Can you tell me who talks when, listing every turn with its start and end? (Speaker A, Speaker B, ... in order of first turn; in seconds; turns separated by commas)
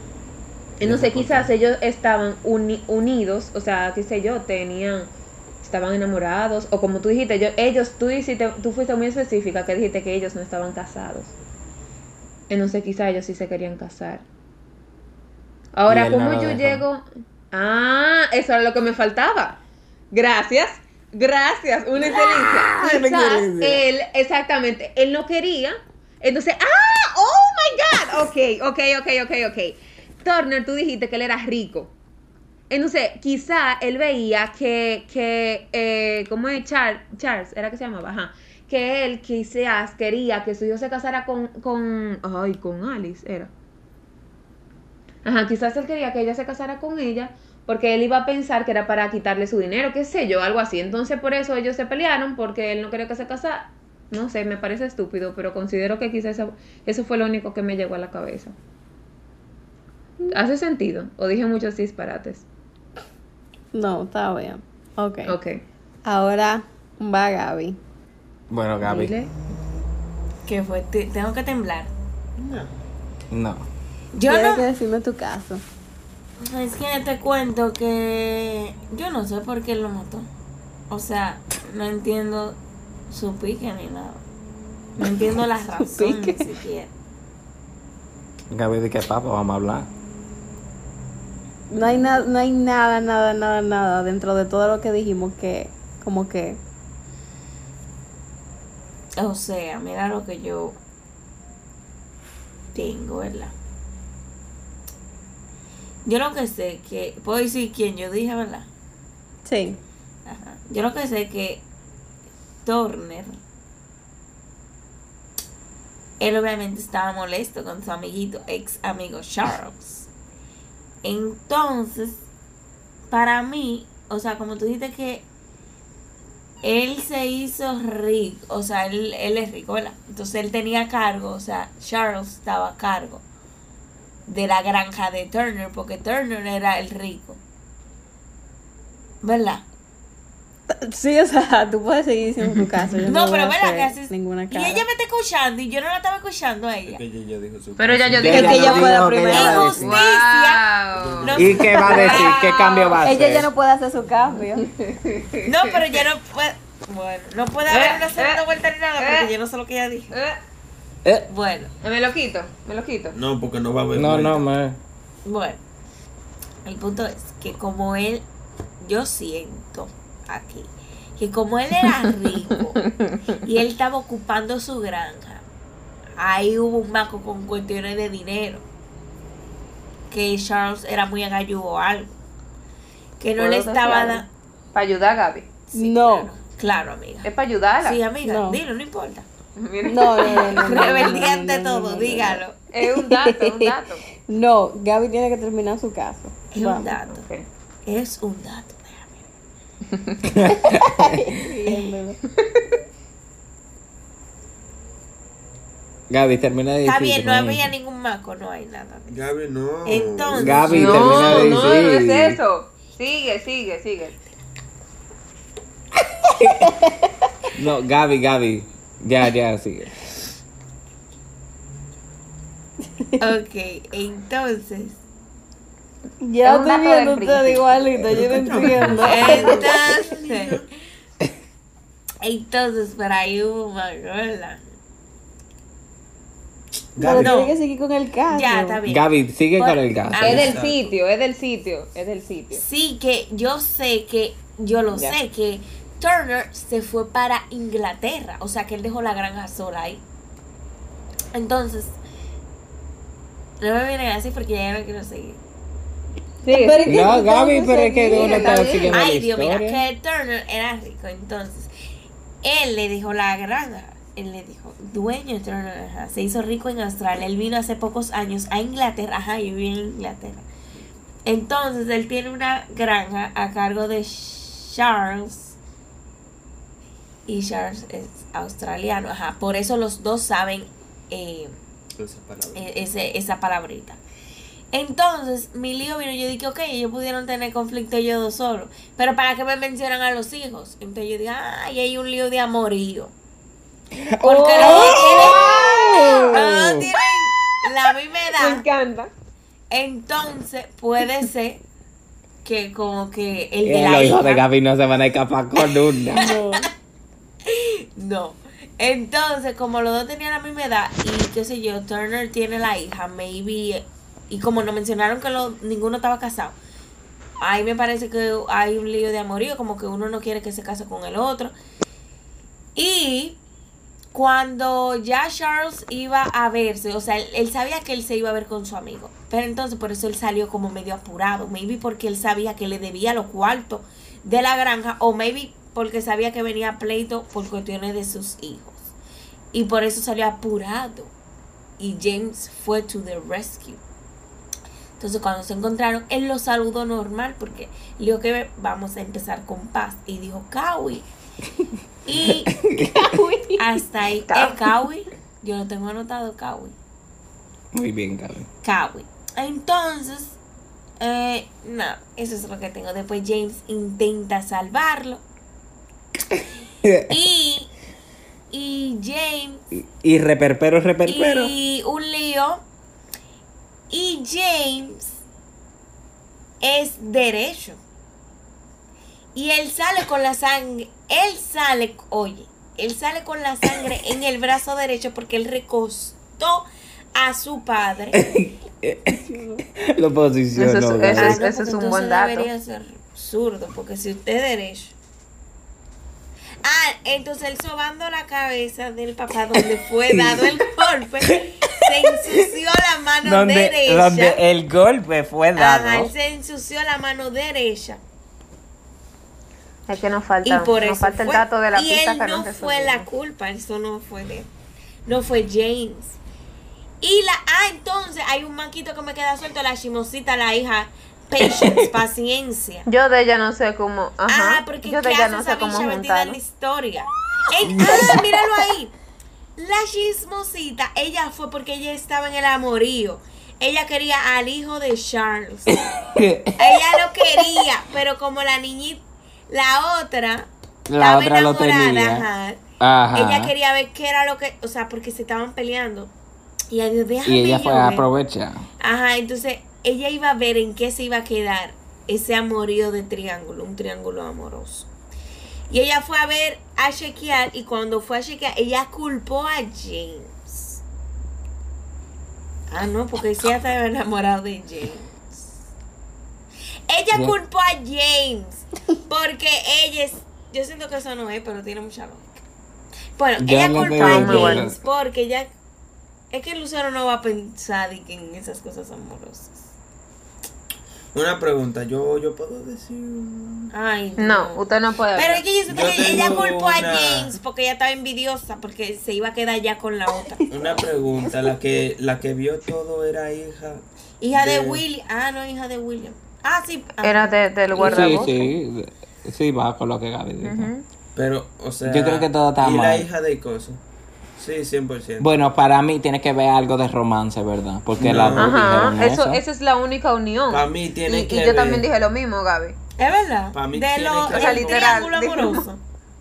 Speaker A: 0.8-5.1, Speaker B: 0.8-1.5, Speaker A: 5.6-11.3, Speaker A: 12.5-14.2, Speaker A: 15.7-19.6, Speaker B: 15.9-16.8, Speaker A: 20.1-31.9, Speaker B: 22.1-23.8, Speaker A: 32.7-43.5, Speaker A: 45.2-58.5, Speaker A: 60.3-62.5, Speaker C: 63.7-65.4, Speaker A: 65.2-65.6, Speaker C: 66.0-67.8, Speaker B: 68.5-69.1, Speaker A: 68.8-69.3, Speaker D: 70.5-71.9, Speaker E: 72.3-72.7, Speaker B: 73.3-73.7, Speaker D: 74.1-74.6, Speaker C: 74.2-75.6, Speaker D: 76.4-80.3, Speaker D: 80.9-82.6, Speaker D: 83.1-84.2, Speaker D: 85.0-86.9, Speaker C: 85.8-86.5, Speaker B: 88.5-89.9, Speaker C: 91.7-96.6, Speaker D: 99.2-100.8, Speaker D: 102.7-103.5, Speaker D: 106.0-108.7, Speaker C: 109.4-109.8, Speaker D: 110.2-111.6, Speaker D: 112.6-113.4, Speaker D: 116.2-120.1, Speaker D: 121.0-122.2, Speaker D: 123.1-125.2, Speaker D: 126.6-133.2, Speaker D: 134.3-137.4, Speaker D: 139.2-139.6, Speaker C: 140.7-144.8, Speaker D: 143.0-147.0, Speaker E: 146.9-148.7, Speaker A: 147.8-152.8, Speaker B: 148.1-150.0, Speaker C: 148.3-149.7, Speaker D: 148.3-150.7, Speaker E: 150.9-152.4, Speaker D: 151.2-152.9, Speaker B: 151.3-153.5, Speaker C: 153.0-154.7, Speaker A: 154.6-155.9, Speaker D: 155.4-160.1, Speaker A: 157.7-158.4, Speaker A: 159.0-159.3, Speaker A: 160.1-160.4, Speaker D: 161.3-161.7, Speaker A: 161.8-163.2, Speaker E: 163.1-164.5, Speaker B: 163.9-164.8, Speaker D: 165.2-165.6, Speaker D: 166.6-168.2, Speaker D: 168.8-172.8, Speaker A: 172.8-173.4, Speaker D: 173.3-175.4, Speaker D: 176.2-178.6, Speaker D: 180.1-182.1, Speaker D: 183.2-184.3, Speaker A: 183.3-185.6, Speaker C: 185.7-186.3, Speaker D: 185.7-189.3, Speaker A: 187.2-188.0, Speaker C: 188.2-188.6, Speaker A: 189.6-191.1, Speaker C: 189.8-196.9, Speaker D: 190.4-192.6, Speaker A: 192.7-194.0, Speaker D: 196.5-197.3, Speaker A: 197.1-197.4, Speaker D: 197.8-199.2, Speaker A: 199.9-200.3, Speaker B: 200.3-201.3, Speaker C: 200.8-202.2, Speaker A: 202.3-202.7, Speaker B: 206.1-207.7, Speaker D: 206.8-209.2, Speaker E: 209.1-211.8, Speaker D: 209.8-211.5, Speaker B: 210.3-212.4, Speaker A: 210.7-214.2, Speaker C: 216.5-217.1, Speaker B: 217.5-219.9, Speaker C: 223.0-223.2, Speaker D: 223.2-225.0, Speaker C: 226.2-229.7, Speaker A: 226.4-227.9, Speaker E: 228.1-230.6, Speaker D: 229.0-230.7, Speaker D: 232.2-234.6, Speaker E: 236.9-237.4, Speaker C: 237.0-238.8, Speaker D: 237.1-237.5, Speaker D: 238.3-240.6, Speaker B: 238.8-240.6, Speaker E: 240.2-241.0, Speaker A: 240.2-242.6, Speaker D: 242.5-250.0, Speaker D: 251.3-252.0, Speaker D: 253.6-255.4, Speaker C: 256.4-258.9, Speaker A: 256.4-257.1, Speaker B: 256.9-259.8, Speaker A: 258.1-258.9, Speaker D: 258.9-261.7, Speaker D: 262.4-270.4, Speaker D: 271.2-275.6, Speaker D: 277.2-281.5, Speaker E: 282.0-282.7, Speaker D: 282.5-284.0, Speaker D: 284.7-293.1, Speaker B: 293.9-296.8, Speaker D: 294.2-298.6, Speaker A: 294.2-296.4, Speaker A: 298.3-299.1, Speaker D: 299.7-301.6, Speaker D: 302.4-304.4, Speaker B: 303.6-306.3, Speaker D: 305.7-306.6, Speaker C: 306.2-306.7, Speaker D: 307.4-316.6, Speaker D: 317.4-321.5, Speaker D: 322.7-323.4, Speaker D: 324.1-338.9, Speaker D: 339.5-341.1, Speaker D: 341.8-343.8, Speaker D: 345.0-351.1, Speaker D: 352.1-352.6, Speaker B: 352.4-353.1, Speaker C: 352.9-353.6, Speaker D: 353.6-356.8, Speaker A: 354.3-354.6, Speaker B: 357.7-358.5, Speaker D: 358.6-360.4, Speaker D: 361.0-365.2, Speaker B: 366.4-367.1, Speaker D: 367.1-367.7, Speaker D: 368.5-369.6, Speaker B: 369.7-371.5, Speaker D: 371.1-372.6, Speaker D: 373.9-375.2, Speaker D: 376.6-377.8, Speaker D: 379.3-388.2, Speaker B: 388.1-391.4, Speaker C: 389.1-389.6, Speaker A: 390.6-392.5, Speaker D: 391.1-394.9, Speaker D: 396.6-404.4, Speaker B: 400.1-400.5, Speaker B: 401.2-402.4, Speaker B: 403.2-406.1, Speaker D: 405.6-408.0, Speaker A: 409.9-413.1, Speaker D: 410.4-414.5, Speaker D: 415.1-416.2, Speaker D: 417.0-422.9, Speaker B: 421.4-421.9, Speaker A: 422.9-426.4, Speaker D: 424.3-428.9, Speaker B: 427.6-428.3, Speaker D: 429.6-435.8, Speaker B: 435.7-436.7, Speaker D: 436.6-442.6, Speaker B: 440.9-442.3, Speaker B: 442.8-443.5, Speaker D: 443.1-446.1, Speaker D: 446.7-448.1, Speaker B: 447.2-448.7, Speaker D: 448.8-454.9, Speaker D: 455.7-460.8, Speaker D: 462.7-465.6, Speaker D: 466.9-472.4, Speaker D: 473.1-475.5, Speaker B: 473.4-474.8, Speaker A: 473.9-474.7, Speaker D: 476.3-479.7, Speaker E: 481.1-483.7, Speaker D: 483.7-490.6, Speaker A: 484.2-485.5, Speaker E: 485.6-487.4, Speaker E: 490.5-494.8, Speaker D: 494.2-498.4, Speaker A: 497.0-498.5, Speaker B: 497.8-500.7, Speaker A: 500.4-500.8, Speaker E: 501.1-503.8, Speaker B: 501.8-503.1, Speaker E: 504.4-505.3, Speaker B: 505.2-509.4, Speaker E: 508.0-508.9, Speaker A: 508.4-512.8, Speaker E: 510.5-511.9, Speaker D: 513.0-515.8, Speaker E: 513.5-515.1, Speaker A: 514.3-515.6